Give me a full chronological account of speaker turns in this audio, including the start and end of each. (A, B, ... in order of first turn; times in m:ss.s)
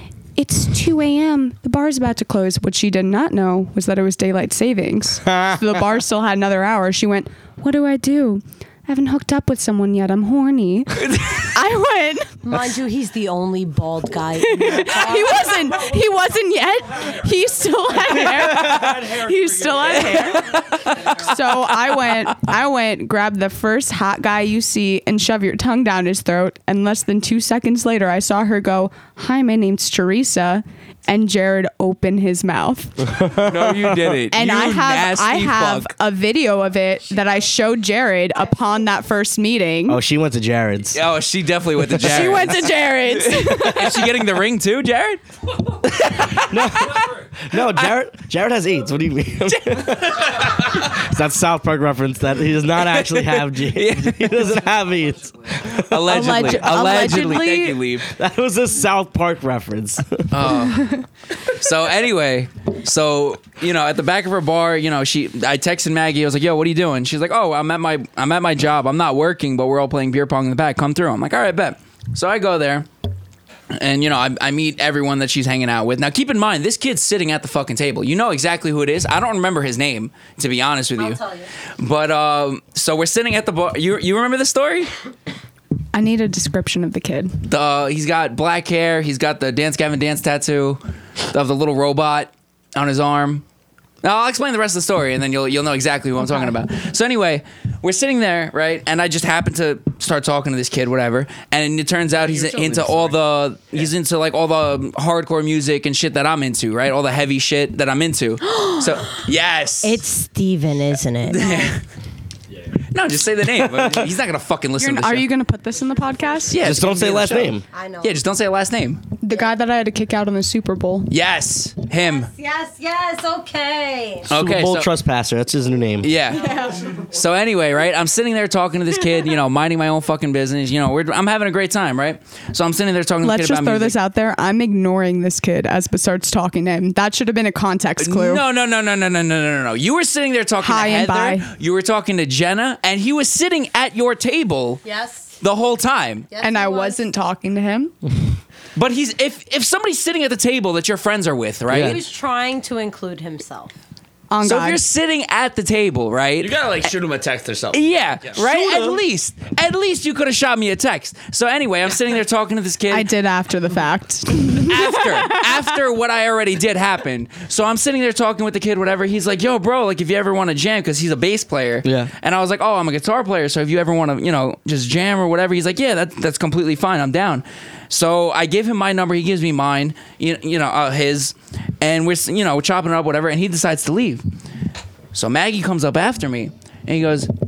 0:00.4-0:12.4 A
0:11.0-0:11.5 B
0:12.4-0:15.8 C
0:14.4-0:33.1 A
0:18.2-0:19.1 B
0:19.8-0:21.4 B
0:33.1-0:34.2 D
0:33.4-0:35.9 B
0:34.3-0:40.0 A
0:39.9-0:41.0 D
0:41.0-0:47.1 B
0:41.9-0:42.3 D
0:42.0-0:44.1 A
0:46.2-0:57.0 D
0:49.5-0:50.5 B
0:52.8-0:54.6 B
0:55.8-0:58.1 B
0:56.1-0:57.8 A
0:58.1-1:00.3 D
1:00.3-1:12.9 B
1:13.7-1:21.2 B
1:21.0-1:21.5 C
1:21.8-1:24.9 B
1:25.9-1:27.4 A
1:27.5-1:30.8 B
1:31.3-1:33.4 B
1:34.0-1:50.0 B
1:36.2-1:36.5 A
1:42.2-1:43.2 E
1:48.5-1:49.2 C
1:49.8-1:51.8 C
1:51.3-1:51.8 B
1:52.9-1:55.3 B
1:53.6-1:54.1 D
1:54.8-1:56.6 A
1:56.0-1:56.5 C
1:56.5-1:59.0 B
1:56.6-1:57.6 D
1:57.7-1:58.2 C
1:59.2-2:01.1 A
2:01.1-2:02.3 B
2:01.9-2:04.3 C
2:04.3-2:04.9 B
2:04.3-2:06.1 D
2:06.0-2:14.0 B
2:06.3-2:07.0 C
2:13.2-2:18.4 A
2:18.0-2:24.8 B
2:20.6-2:21.5 A
2:24.8-2:25.4 C
2:25.4-2:26.3 B
2:26.3-2:27.0 C
2:26.4-2:27.9 A
2:28.8-2:32.0 B
2:31.7-2:32.0 D
2:31.8-2:33.7 C
2:34.3-2:34.8 A
2:34.4-2:36.9 B
2:36.4-2:38.7 E
2:37.7-2:43.1 B
2:38.5-2:38.8 D
2:42.9-2:45.6 A
2:44.6-3:04.2 B
2:51.8-2:52.1 D
3:05.1-3:07.3 B